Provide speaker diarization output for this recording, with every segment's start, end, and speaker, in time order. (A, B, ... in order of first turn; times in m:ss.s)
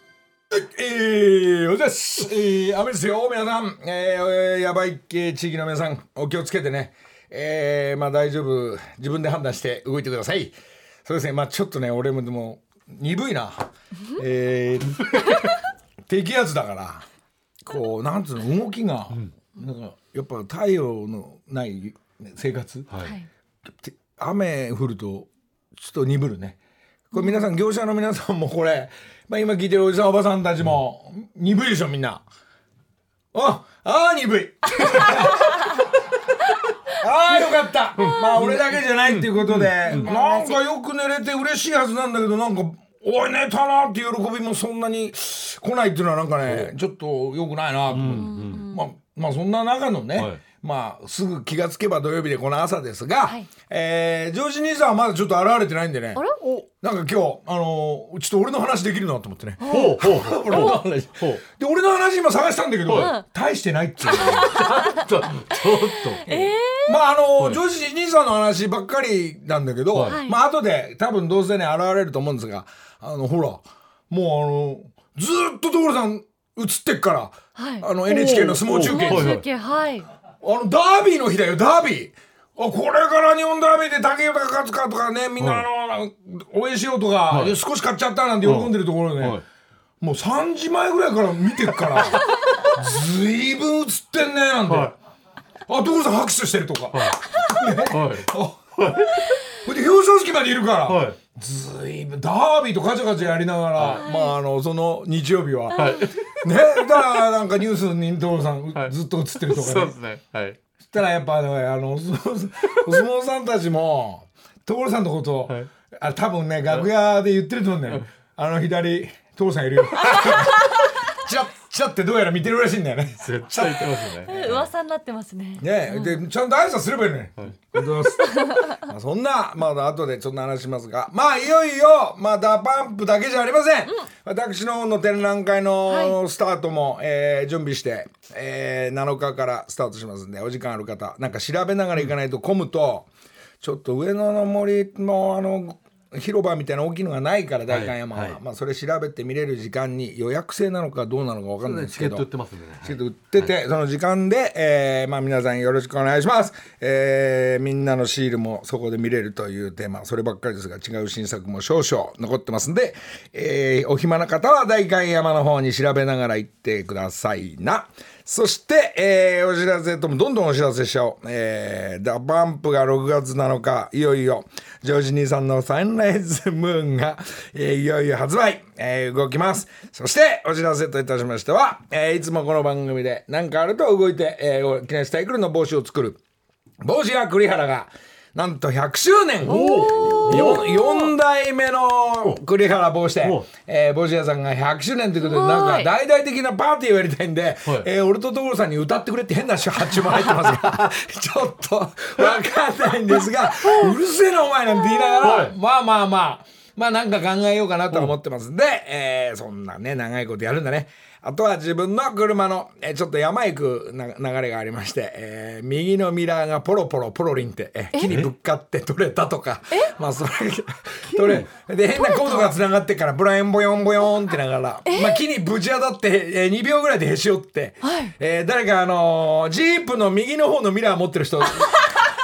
0:00.5-0:10.5 A
0:11.0-0:15.5 A
0:16.1-0:17.0 A
0:17.6-0:22.9 A
0:23.0-0:23.3 B
0:23.8-0:26.6 A
0:27.1-0:32.2 A
0:33.3-0:35.6 A
0:37.0-0:56.2 A
0:38.0-0:40.1 C
0:39.4-0:40.6 B
0:46.4-0:46.7 C
0:47.9-0:48.7 C
0:48.1-0:48.8 B
0:50.2-0:50.4 C
0:56.4-0:56.7 C
0:56.8-1:04.7 A
0:59.6-1:00.8 B
0:59.7-1:01.4 C
1:02.9-1:03.1 C
1:02.9-1:03.2 B
1:04.1-1:05.0 B
1:04.5-1:06.5 C
1:05.7-1:07.0 B
1:06.8-1:19.4 A
1:09.9-1:10.2 C
1:10.1-1:10.4 B
1:17.6-1:17.9 B
1:18.1-1:19.4 C
1:18.7-1:20.1 B
1:20.4-1:29.4 A
1:25.4-1:25.7 C
1:27.3-1:27.6 C
1:28.4-1:29.4 C
1:30.0-1:35.0 A
1:34.7-1:34.9 C
1:35.7-1:38.6 A
1:36.9-1:37.2 C
1:37.9-1:39.2 C
1:39.6-1:50.0 A
1:40.9-1:41.2 C
1:43.8-1:44.0 C
1:43.9-1:44.4 B
1:45.7-1:46.2 C
1:45.8-1:46.0 B
1:49.5-1:50.6 C
1:50.8-2:03.9 A
2:03.2-2:04.7 C
2:04.3-2:06.2 B
2:05.6-2:23.1 A
2:08.3-2:08.7 B
2:15.9-2:16.2 B
2:23.6-2:32.3 A
2:27.7-2:28.4 C
2:31.6-2:33.5 C
2:32.8-3:06.2 A
3:06.8-3:51.8 A
3:09.4-3:10.7 C
3:09.5-3:10.9 B
3:15.2-3:15.9 B
3:25.2-3:25.5 C
3:41.2-3:41.5 C
3:42.0-3:42.5 B
3:44.9-3:45.2 B
3:47.8-3:48.1 B